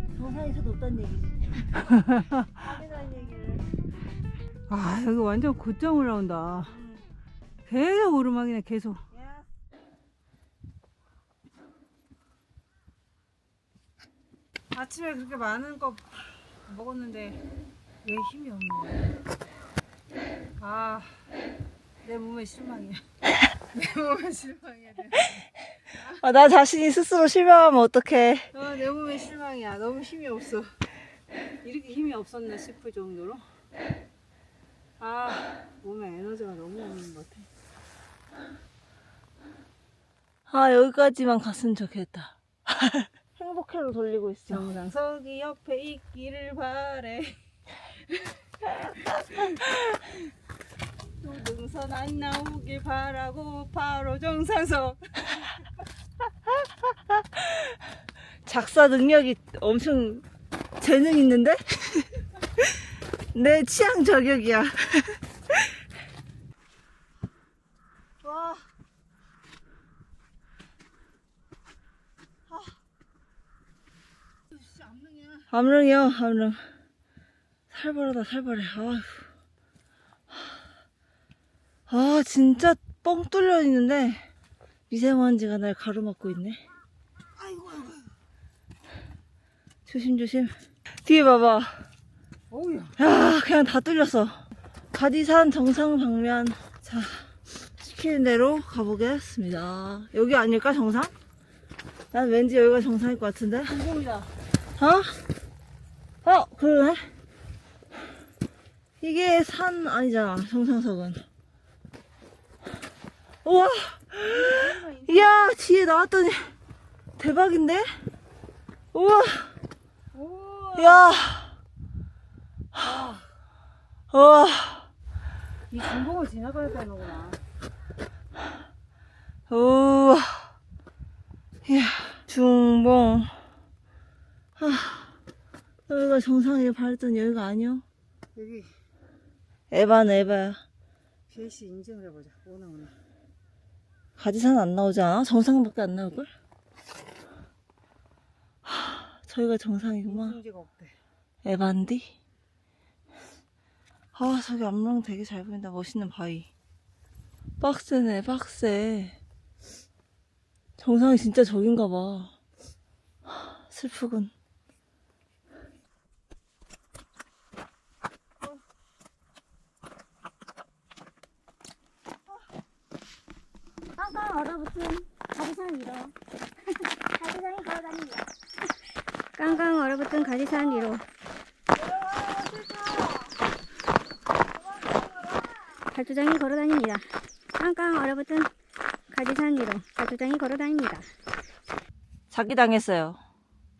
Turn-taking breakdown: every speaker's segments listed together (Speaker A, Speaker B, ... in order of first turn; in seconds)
Speaker A: 0.1-1.9, 2.4-3.7, 6.7-7.0, 9.1-9.5, 26.0-28.5, 40.5-44.7, 58.5-60.2, 60.8-62.2, 63.3-65.2, 68.2-68.7, 72.5-72.8, 75.5-76.6, 77.7-79.3, 81.9-84.3, 84.9-86.6, 89.8-90.5, 91.0-91.8, 93.0-94.4, 94.9-101.1, 102.1-103.8, 104.8-105.2, 106.2-107.1, 109.0-111.2, 113.4-116.5, 117.2-117.9, 118.9-119.5, 120.8-121.6, 124.1-124.9, 129.5-130.5, 131.6-133.4, 134.6-135.2, 135.9-137.8, 139.7-140.6, 144.2-146.3, 148.7-150.4, 151.4-152.1, 154.1-156.5, 157.6-159.2, 160.8-162.3, 163.3-164.3, 181.7-183.3, 184.7-185.7, 192.3-193.2
Speaker B: 1.9-2.4, 4.7-6.8, 7.6-9.0, 14.7-17.4, 18.0-19.2, 20.6-21.3, 22.0-23.0, 23.7-25.4, 28.5-30.8, 31.6-33.5, 35.0-37.5, 44.5-47.4, 48.1-49.7, 51.2-55.5, 74.8-75.3, 87.3-88.1, 92.5-93.0, 103.7-104.3, 114.3-115.5, 120.1-121.1, 122.8-123.3, 125.7-127.4, 138.3-138.7, 141.3-142.9, 150.1-151.0
Speaker C: 174.0-176.1, 176.8-178.3, 179.3-181.0, 185.8-188.5, 189.1-191.1